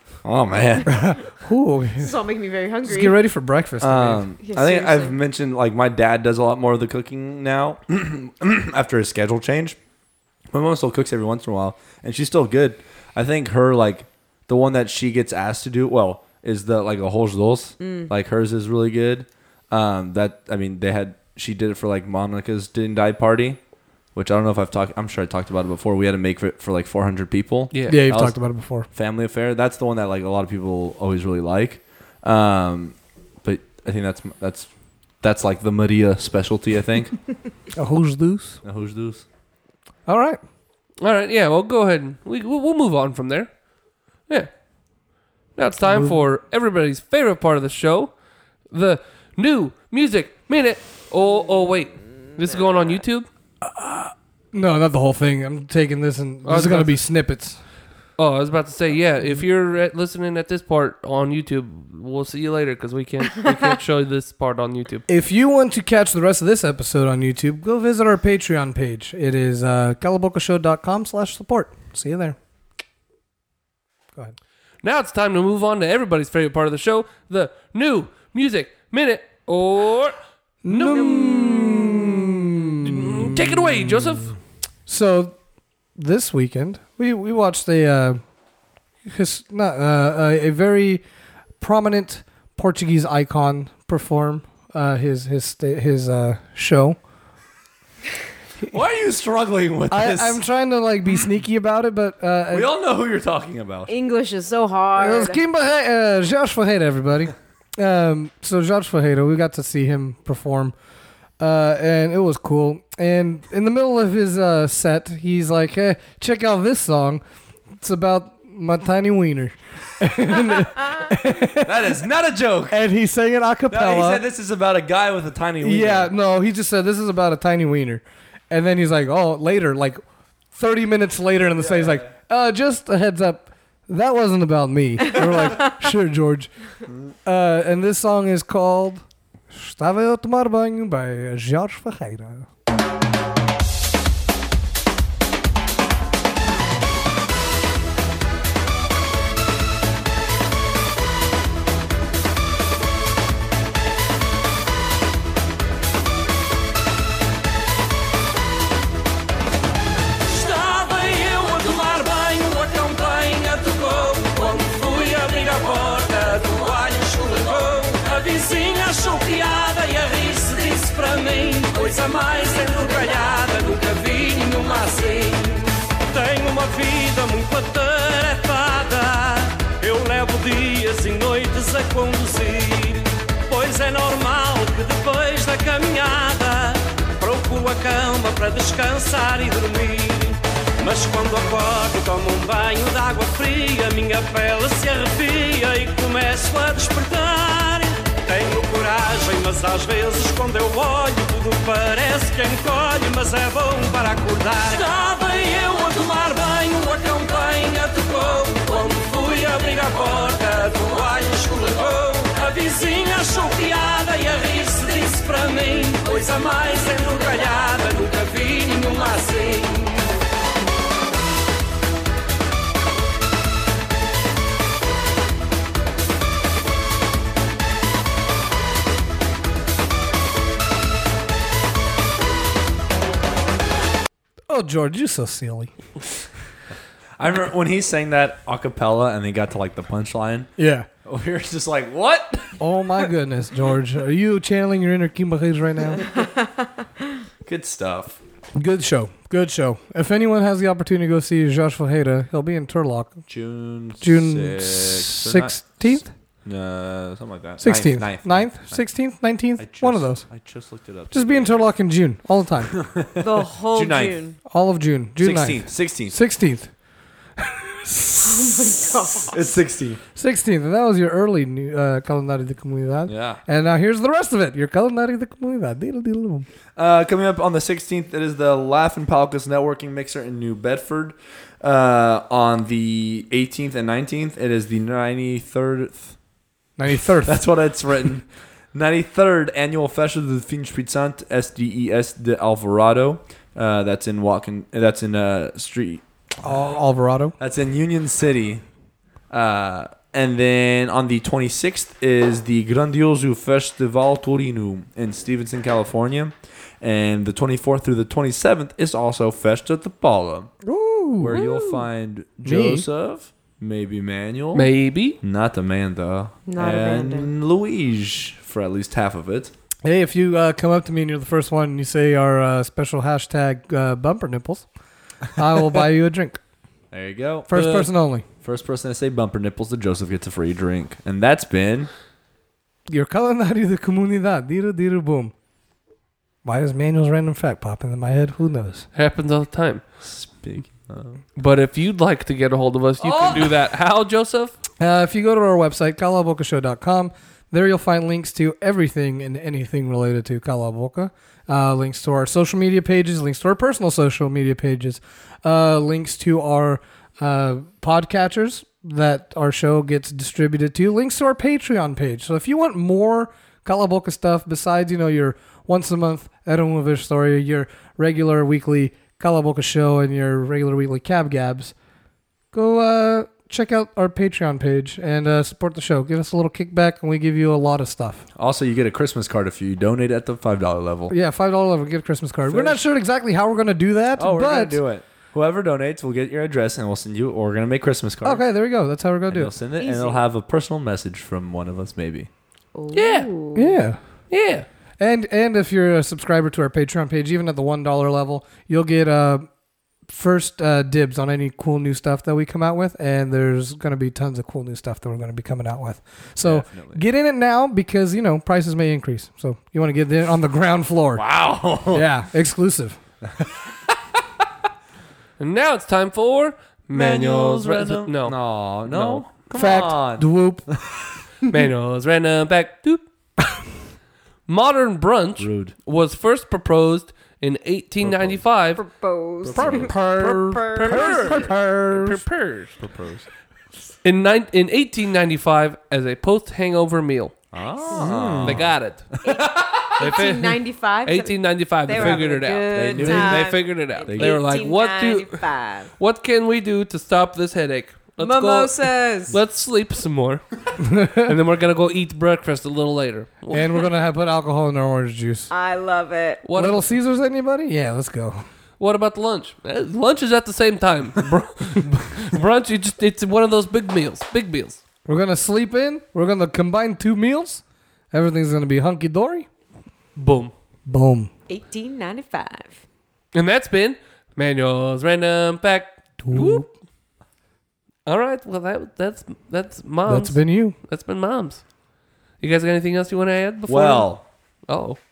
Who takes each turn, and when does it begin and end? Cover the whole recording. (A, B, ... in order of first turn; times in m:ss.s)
0:00.2-0:00.9 A
0:00.9-0:02.2 B
0:02.0-0:03.2 C
0:02.8-0:04.2 B
0:03.8-0:09.8 A
0:04.4-0:05.2 C
0:10.5-0:23.6 A
0:17.8-0:18.1 C
0:24.2-0:28.4 A
0:27.7-0:28.0 D
0:27.9-0:28.9 B
0:28.9-0:34.7 A
0:35.2-0:37.2 A
0:37.7-0:38.6 B
0:38.6-0:39.2 A
0:40.1-0:40.4 B
0:41.0-0:43.5 D
0:45.6-0:48.1 D
0:45.8-0:46.2 B
0:48.7-0:53.3 D
0:53.6-0:57.6 B
0:56.5-0:57.0 D
0:58.2-1:05.0 D
1:05.1-1:12.4 B
1:14.8-1:20.2 D
1:20.6-1:23.8 B
1:20.7-1:24.4 D
1:24.9-1:25.4 B
1:26.0-1:28.2 B
1:29.0-1:31.0 B
1:31.6-1:37.0 B
1:38.7-1:40.4 A
1:39.9-1:42.7 B
1:42.5-1:43.9 A
1:43.9-1:45.4 C
1:45.0-1:50.8 B
1:51.4-1:57.2 B
1:57.8-2:02.0 B
2:01.6-2:02.8 A
2:02.7-2:04.2 B
2:03.7-2:06.1 A
2:05.6-2:10.0 B
2:10.5-2:16.5 B
2:11.6-2:12.1 A
2:16.9-2:17.1 A
2:17.2-2:22.5 B
2:40.3-3:40.0 E
3:54.5-3:55.7 B
3:57.2-4:00.5 A
4:00.6-4:00.9 B
4:01.0-4:02.6 A
4:02.6-4:06.0 B
4:07.4-4:08.2 A
4:08.6-4:13.2 B
4:13.3-4:18.8 A
4:14.0-4:16.1 B
4:17.6-4:20.3 B
4:19.6-4:21.7 A
4:21.1-4:22.8 B
4:22.7-4:24.2 A
4:23.2-4:24.4 C
4:24.5-4:26.7 B
4:25.2-4:26.2 A
4:27.4-4:28.5 B
4:28.2-4:29.5 C
4:29.3-4:30.0 A
4:30.2-4:36.5 B
4:33.1-4:33.4 A
4:36.8-4:46.2 A
4:46.8-4:47.4 B
4:47.3-4:56.0 A
4:56.4-4:57.4 B
4:57.4-4:58.6 A
4:59.3-5:10.5 A
5:10.6-5:11.4 B
5:11.2-5:14.7 A
5:11.3-5:11.8 C
5:12.4-5:12.9 B
5:14.5-5:15.2 D
5:15.2-5:19.5 A
5:16.5-5:17.3 C
5:19.8-5:24.7 B
5:25.4-5:26.4 B
5:26.9-5:27.9 A
5:27.5-5:28.3 B
5:28.4-5:31.9 A
5:32.9-5:35.3 B
5:36.4-5:38.9 B
5:39.0-5:39.8 D
5:40.0-5:41.2 A
5:41.4-5:44.6 D
5:43.0-5:43.5 A
5:44.8-6:11.7 B
6:12.5-6:18.2 B
6:18.4-6:21.1 A
6:21.1-6:24.8 B
6:22.5-6:22.8 A
6:24.2-6:28.4 A
6:28.2-6:29.5 B
6:29.3-6:32.3 A
6:29.8-6:30.2 C
6:32.8-6:33.8 C
6:32.9-6:33.3 D
6:33.6-6:34.0 B
6:34.3-6:34.7 D
6:35.0-6:39.5 B
6:40.1-6:51.2 B
6:46.4-6:47.0 A
6:51.2-6:52.1 A
6:51.9-6:53.0 B
6:55.4-6:59.3 D
6:56.9-7:00.3 A
6:59.5-7:00.7 B
7:01.5-7:03.0 D
7:04.5-7:08.8 D
7:05.4-7:05.8 A
7:08.0-7:08.4 A
7:08.8-7:11.5 C
7:09.4-7:10.0 A
7:09.6-7:12.2 B
7:09.6-7:10.0 D
7:10.7-7:12.8 D
7:12.8-7:13.3 A
7:14.0-7:17.4 D
7:17.5-7:18.7 A
7:18.0-7:18.6 C
7:18.0-7:19.1 D
7:19.2-7:25.9 C
7:19.2-7:20.0 A
7:20.0-7:25.5 D
7:22.0-7:23.5 A
7:24.1-7:24.4 A
7:26.0-7:33.8 D
7:28.2-7:29.4 C
7:30.8-7:31.3 B
7:33.5-7:35.5 B
7:35.5-7:36.4 C
7:36.4-7:36.8 D
7:36.5-7:38.4 B
7:38.8-7:44.8 D
7:45.1-7:49.5 B
7:50.2-7:50.5 D
7:50.9-7:51.3 B
7:51.5-7:52.8 C
7:53.3-7:56.7 D
7:56.2-7:56.7 B
7:58.0-8:01.6 D
8:00.1-8:00.8 B
8:02.4-8:04.2 D
8:03.7-8:04.2 A
8:04.7-8:05.0 D